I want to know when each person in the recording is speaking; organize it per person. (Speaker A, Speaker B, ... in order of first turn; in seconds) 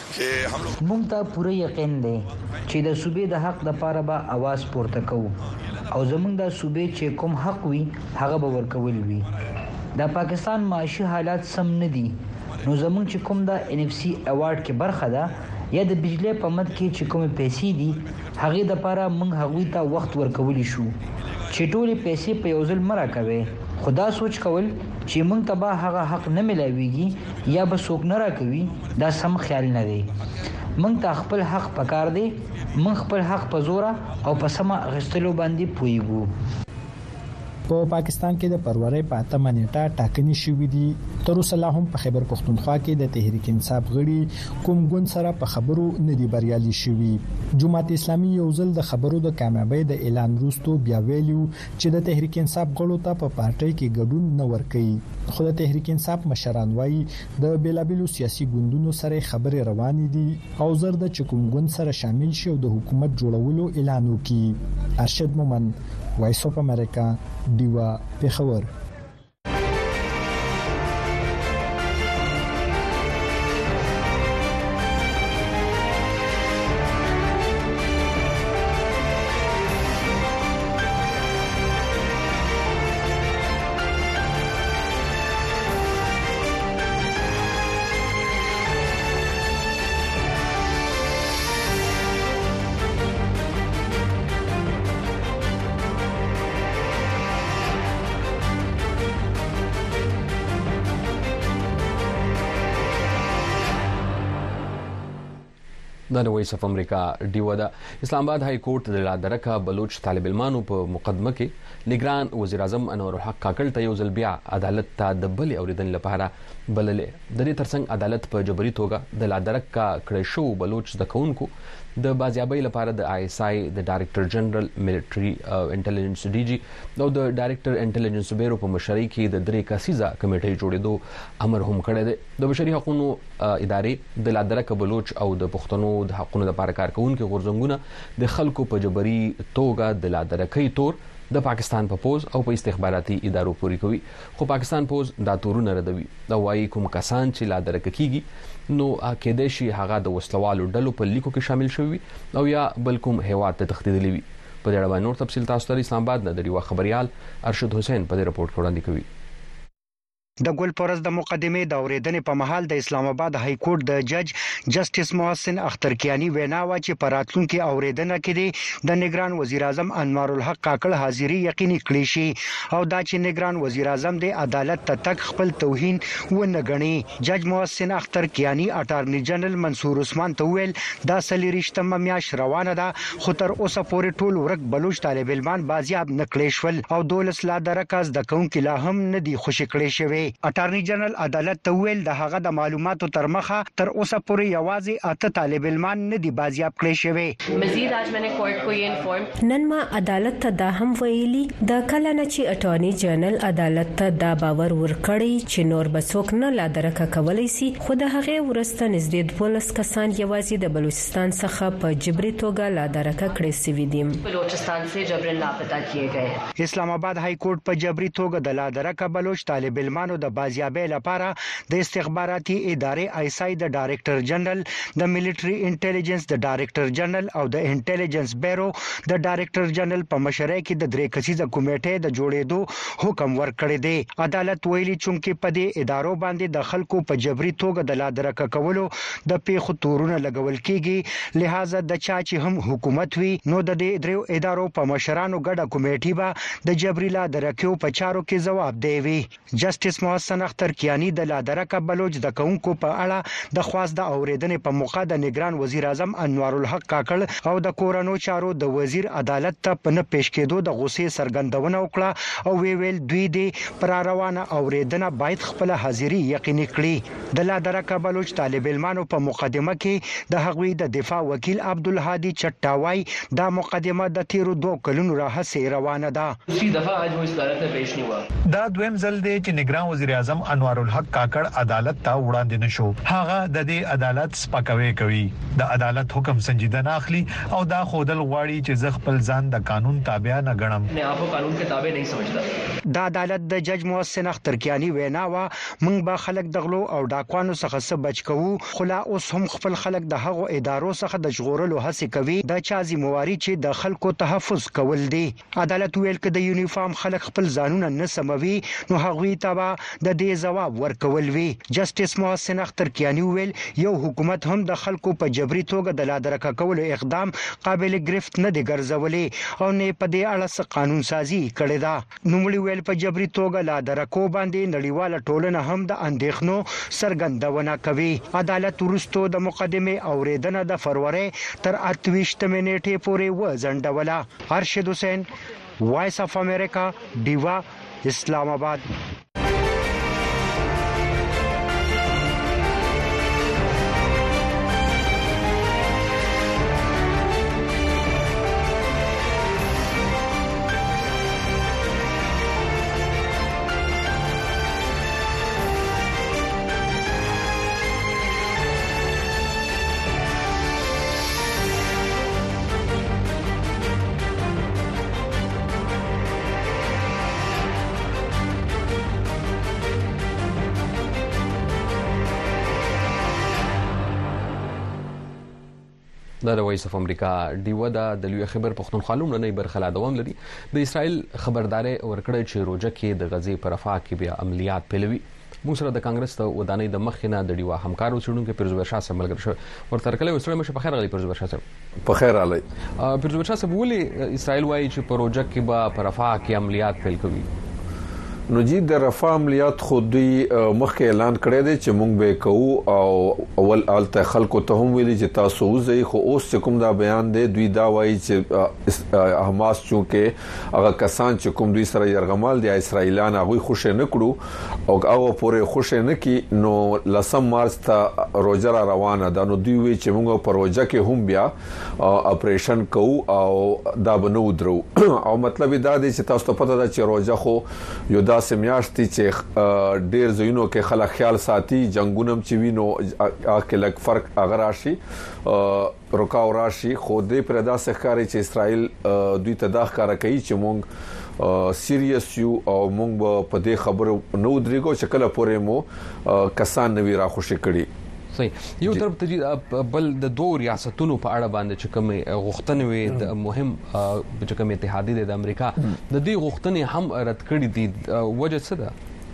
Speaker A: 0.8-5.4, 5.9-9.3, 9.9-20.9, 21.5-30.1, 30.8-36.3
Speaker B: 37.7-68.7
Speaker C: 106.1-159.1, 376.4-391.6, 393.0-397.5, 448.3-458.9
Speaker D: 160.4-197.3, 216.6-276.4, 292.9-335.3, 335.8-338.8
Speaker E: 197.5-199.3, 214.2-216.4
Speaker F: 199.4-214.2
Speaker G: 276.8-278.2, 290.9-292.4
Speaker H: 278.5-290.9
Speaker I: 392.1-392.6, 398.5-414.4, 414.9-440.9, 441.4-447.9